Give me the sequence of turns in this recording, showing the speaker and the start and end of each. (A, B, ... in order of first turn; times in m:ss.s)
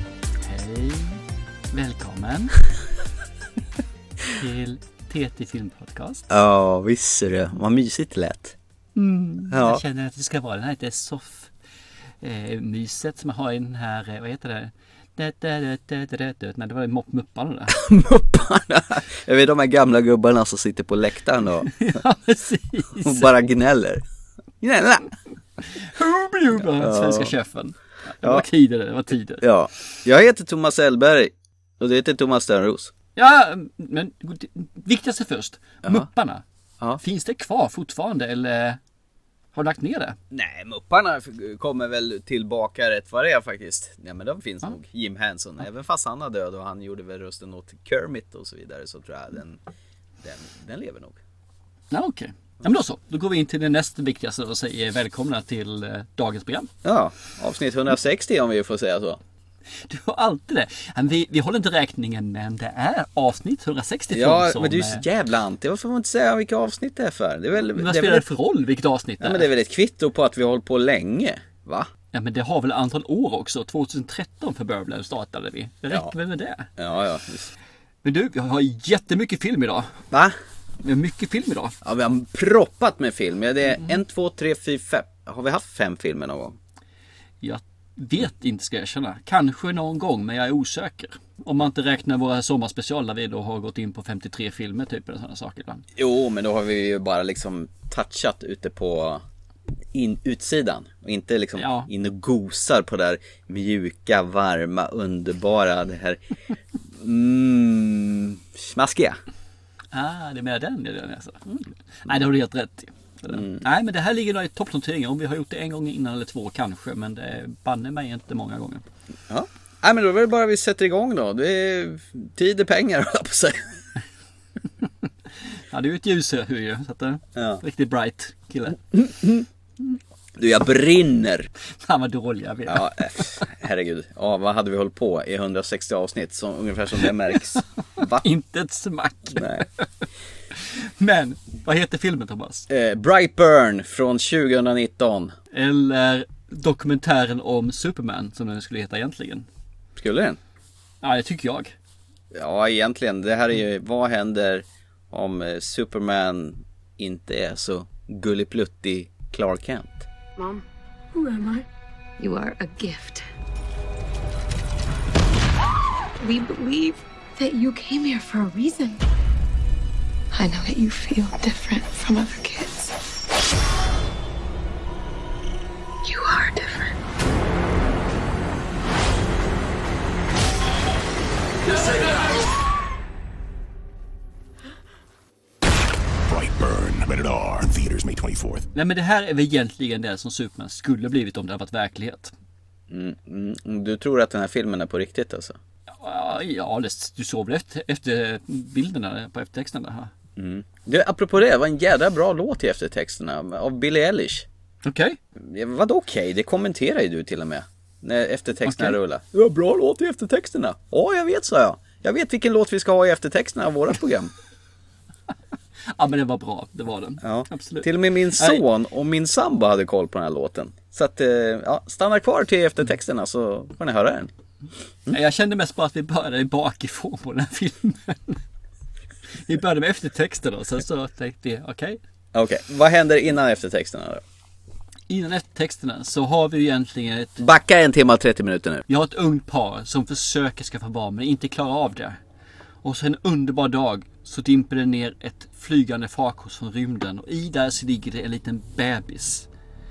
0:00.4-0:02.6 A
0:04.3-0:06.3 A
0:06.3-0:08.6 B
0:09.0-0:11.5 A
0:09.5-0:09.8 B
0:12.2-0:17.8 A
0:17.7-0:22.0 B
0:21.8-0:23.3 A
0:23.0-0:24.0 B
0:24.6-0:25.1 B
0:25.7-0:29.5 A
0:26.6-0:27.3 B
0:29.4-0:32.9 B
0:33.2-0:36.4 A
0:37.0-0:38.8 A
0:39.5-0:40.2 A
0:40.3-0:49.6 B
0:50.2-0:51.2 B
0:51.9-0:56.7 A
0:56.8-0:59.2 B
0:59.8-1:05.0 A
1:04.1-1:08.2 B
1:07.7-1:09.5 A
1:09.2-1:11.9 B
1:12.1-1:16.7 A
1:16.8-1:17.5 B
1:18.0-1:20.0 A
1:20.8-1:21.8 A
1:21.8-1:26.6 B
1:27.4-1:35.8 A
1:36.0-1:39.2 B
1:39.9-1:46.2 B
1:41.6-1:41.9 A
1:46.9-1:49.2 B
1:49.9-1:58.9 A
1:53.3-1:53.6 B
1:59.3-2:03.8 B
2:05.7-2:08.8 A
2:07.4-2:07.6 B
2:08.9-2:09.4 B
2:10.4-2:11.5 B
2:11.8-2:13.5 A
2:12.7-2:18.2 B
2:18.2-2:22.7 A
2:19.4-2:19.7 B
2:22.7-2:25.4 B
2:25.5-2:29.5 A
2:30.0-2:30.4 B
2:31.0-2:31.7 A
2:32.3-2:40.1 B
2:41.1-2:41.6 C
2:42.2-2:43.2 C
2:46.2-2:49.0 C
2:50.3-2:52.9 C
2:56.0-2:56.9 C
3:06.3-3:08.7 D
3:08.8-3:12.3 A
3:12.9-3:15.6 B
3:16.0-3:20.1 A
3:20.4-3:24.5 B
3:24.8-3:25.2 A
3:25.4-3:34.3 B
3:28.6-3:29.0 A
3:35.9-3:38.6 A
3:37.2-3:44.3 B
3:45.1-3:48.4 A
3:49.4-3:52.0 A
3:52.3-3:54.2 B
3:55.1-3:57.4 A
3:57.4-3:58.8 B
3:58.9-4:02.2 A
4:02.8-4:09.5 A